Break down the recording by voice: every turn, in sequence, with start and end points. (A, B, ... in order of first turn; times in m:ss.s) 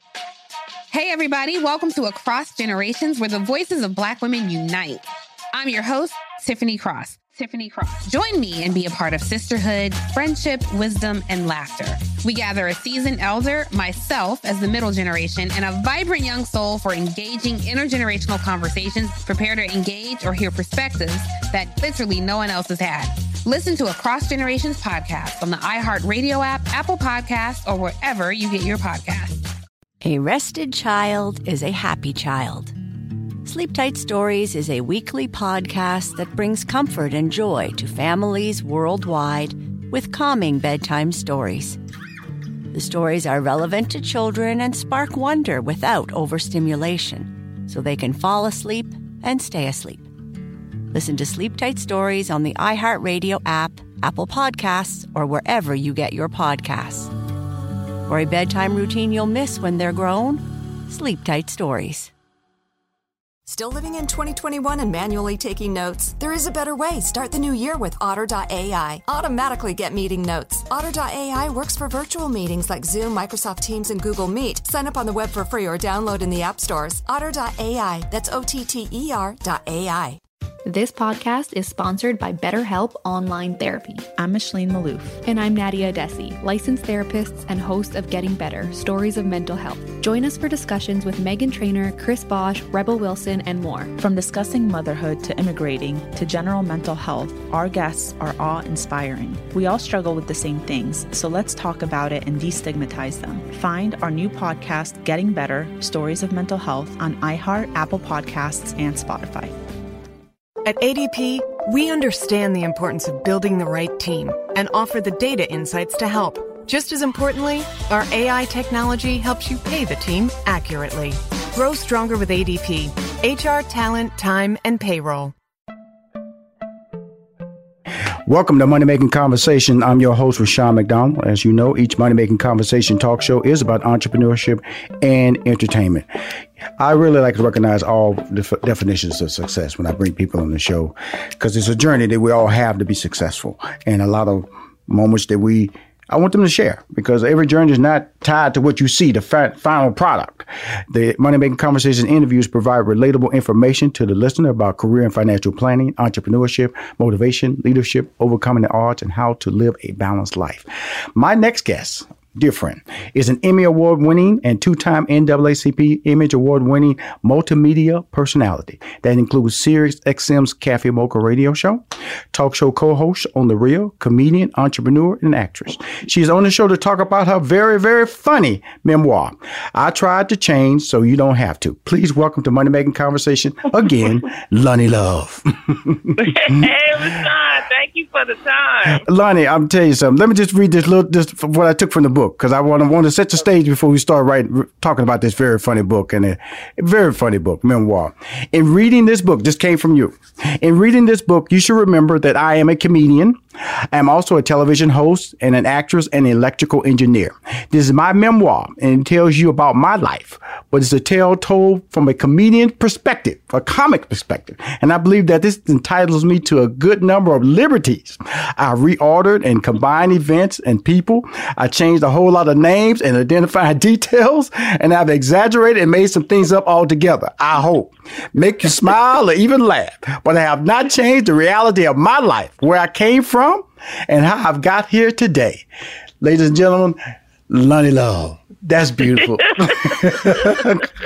0:00.9-0:29.4 A
0:30.0-0:32.8 B
0:33.4-0:41.8 B
0:42.7-0:50.1 B
0:50.9-0:57.1 B
0:58.0-1:02.1 B
1:03.4-1:20.2 C
1:20.6-1:24.1 D
1:24.2-1:25.2 E
1:25.2-1:33.9 D
1:34.0-1:49.6 E
1:50.6-2:05.3 F
2:08.2-2:16.0 G
2:16.8-3:07.0 G
3:06.2-3:09.0 H
3:08.9-3:23.4 G
3:23.9-3:55.6 G
3:56.2-4:00.9 G
3:59.6-4:00.6 H